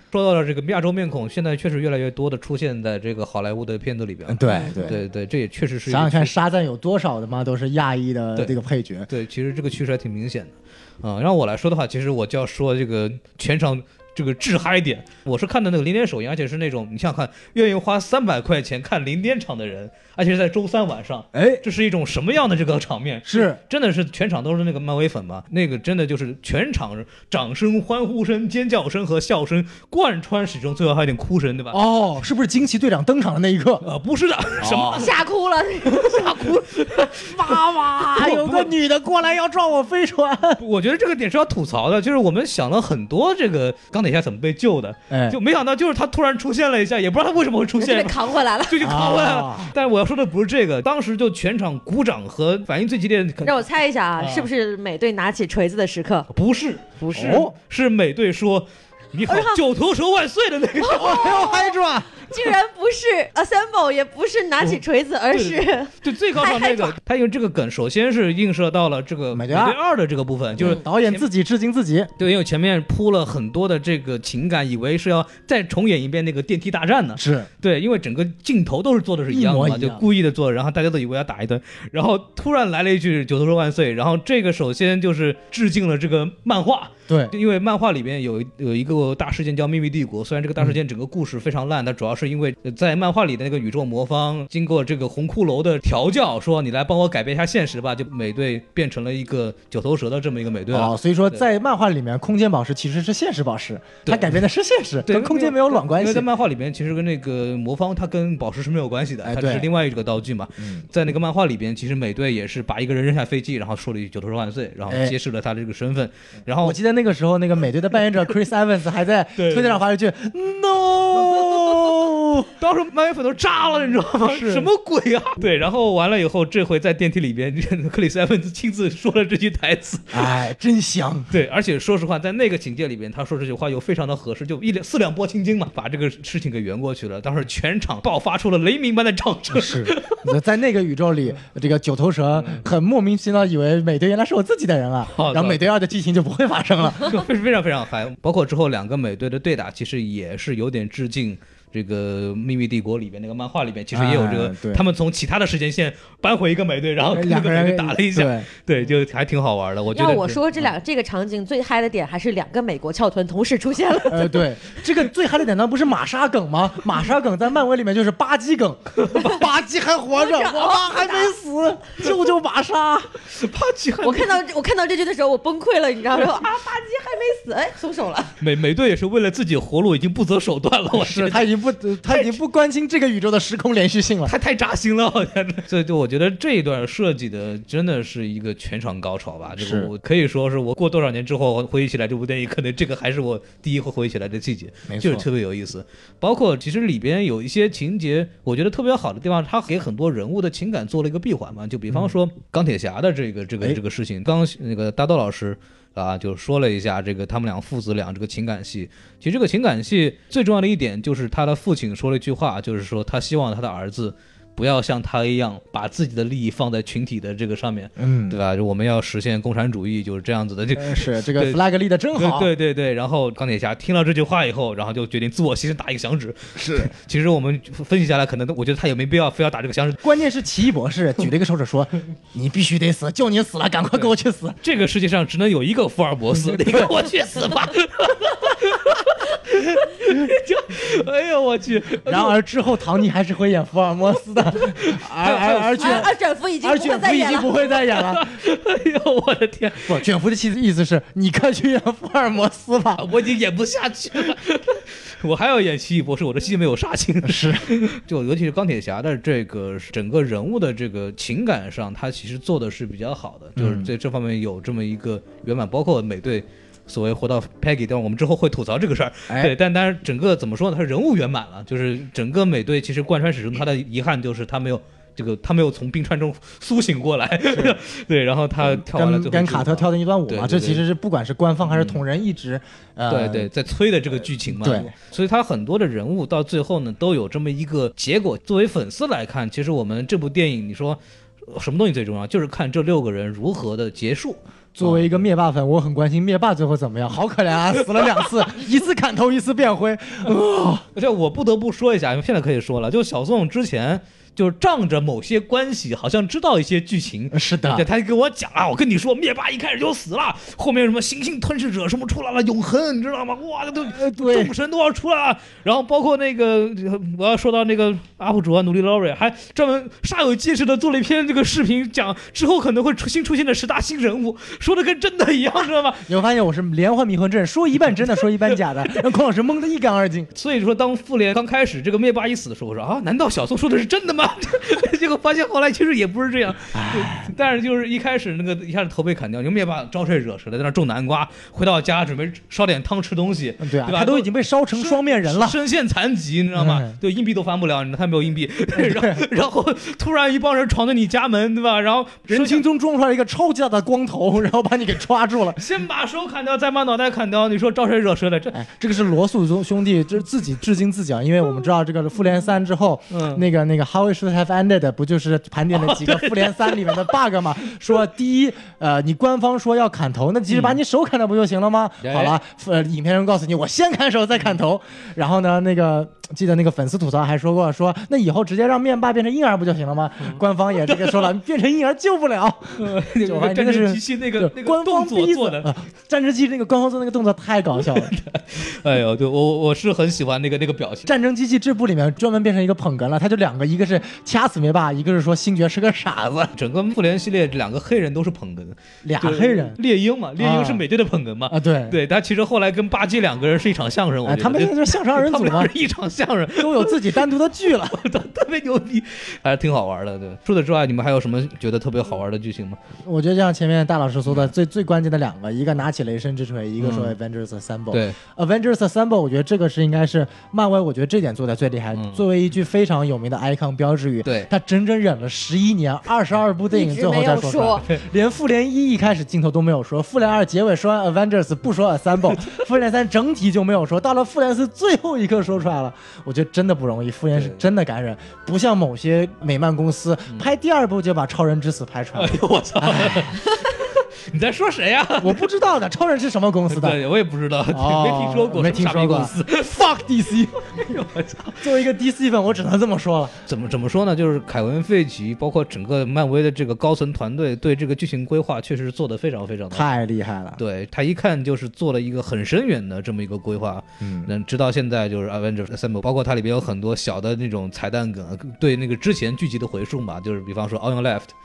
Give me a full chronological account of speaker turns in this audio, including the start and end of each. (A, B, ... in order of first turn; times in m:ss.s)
0:00.1-0:06.4 A
0:04.3-0:05.0 B
0:04.5-0:04.9 C
0:05.9-0:09.1 B
0:09.1-0:31.8 A
0:21.3-0:21.6 B
0:23.2-0:23.6 B
0:31.7-0:33.8 B
0:33.8-0:35.2 A
0:34.6-0:35.0 B
0:34.8-0:36.4 C
0:35.8-0:38.7 A
0:37.2-0:40.6 B
0:40.6-0:53.6 A
0:45.1-0:45.4 B
0:47.8-0:49.0 C
0:48.8-0:49.8 B
0:53.4-0:56.3 C
0:54.2-0:54.5 A
0:56.3-1:01.4 A
0:57.0-0:57.5 C
0:57.1-0:57.5 B
0:59.3-0:59.6 C
1:00.8-1:07.0 C
1:00.9-1:02.1 B
1:05.3-1:11.3 A
1:09.3-1:09.8 B
1:10.6-1:12.1 B
1:12.2-1:41.4 A
1:17.2-1:17.5 B
1:19.3-1:20.0 B
1:27.1-1:27.3 B
1:40.7-1:46.3 B
1:44.0-1:44.4 A
1:45.1-1:56.8 A
1:49.2-1:49.7 B
1:54.9-1:55.1 B
1:56.6-2:02.5 B
1:59.4-1:59.8 A
2:01.2-2:01.7 A
2:02.6-2:10.3 A
2:04.2-2:04.7 B
2:10.1-2:11.3 B
2:11.3-2:20.4 A
2:19.5-2:27.2 B
2:22.4-2:22.6 A
2:25.1-2:25.7 A
2:27.0-2:40.4 A
2:33.9-2:34.8 B
2:37.1-2:38.5 B
2:39.9-2:44.5 C
2:44.1-2:53.1 B
2:50.2-2:51.3 C
2:53.3-2:54.4 A
2:54.0-2:58.4 C
2:58.4-3:01.5 A
3:00.9-3:04.3 B
3:04.2-3:41.6 A
3:09.6-3:09.9 B
3:14.9-3:15.2 B
3:38.0-3:38.4 B
3:40.8-3:42.5 B
3:42.2-3:50.0 A
3:46.6-3:46.9 B
3:50.0-3:54.6 B
3:53.9-4:02.4 A
3:56.4-3:57.0 B
4:02.0-4:06.1 B
4:04.8-4:06.0 A
4:05.8-4:07.7 C
4:06.6-4:08.4 B
4:07.9-4:10.0 A
4:09.8-4:13.0 B
4:13.0-4:40.8 A
4:17.2-4:17.7 B
4:23.6-4:23.9 B
4:29.3-4:29.5 B
4:37.5-4:37.8 B
4:38.6-4:43.5 B
4:41.6-4:42.0 A
4:43.1-4:55.2 A
4:44.5-4:44.9 B
4:54.8-5:00.8 B
5:01.0-5:26.0 A
5:07.3-5:07.9 B
5:13.8-5:14.5 B
5:26.0-5:30.3 B
5:30.3-5:52.6 A
5:36.7-5:37.3 B
5:43.6-5:45.6 B
5:46.5-5:47.0 B
5:48.8-5:49.2 B
5:52.3-5:55.6 B
5:55.6-5:58.6 A
5:58.5-6:28.1 B
6:03.1-6:03.4 A
6:05.7-6:07.1 A
6:10.5-6:10.8 A
6:12.0-6:12.4 A
6:20.3-6:21.3 A
6:22.8-6:25.7 A
6:27.9-6:31.1 A
6:31.0-6:36.5 B
6:36.5-6:52.8 A
6:39.0-6:39.8 B
6:40.4-6:40.8 B
6:41.5-6:42.0 B
6:44.2-6:45.7 B
6:46.6-6:48.0 B
6:53.0-7:23.4 B
6:56.8-6:57.2 A
6:57.9-6:58.2 A
7:01.9-7:02.2 A
7:04.2-7:04.5 A
7:06.7-7:07.8 C
7:17.3-7:17.6 A
7:22.2-7:25.5 A
7:25.2-7:27.0 B
7:26.7-7:30.0 A
7:27.7-7:30.6 B
7:30.6-7:31.7 A
7:31.6-7:33.4 B
7:33.5-7:39.9 A
7:39.7-7:40.6 B
7:40.6-7:51.3 A
7:44.0-7:44.3 B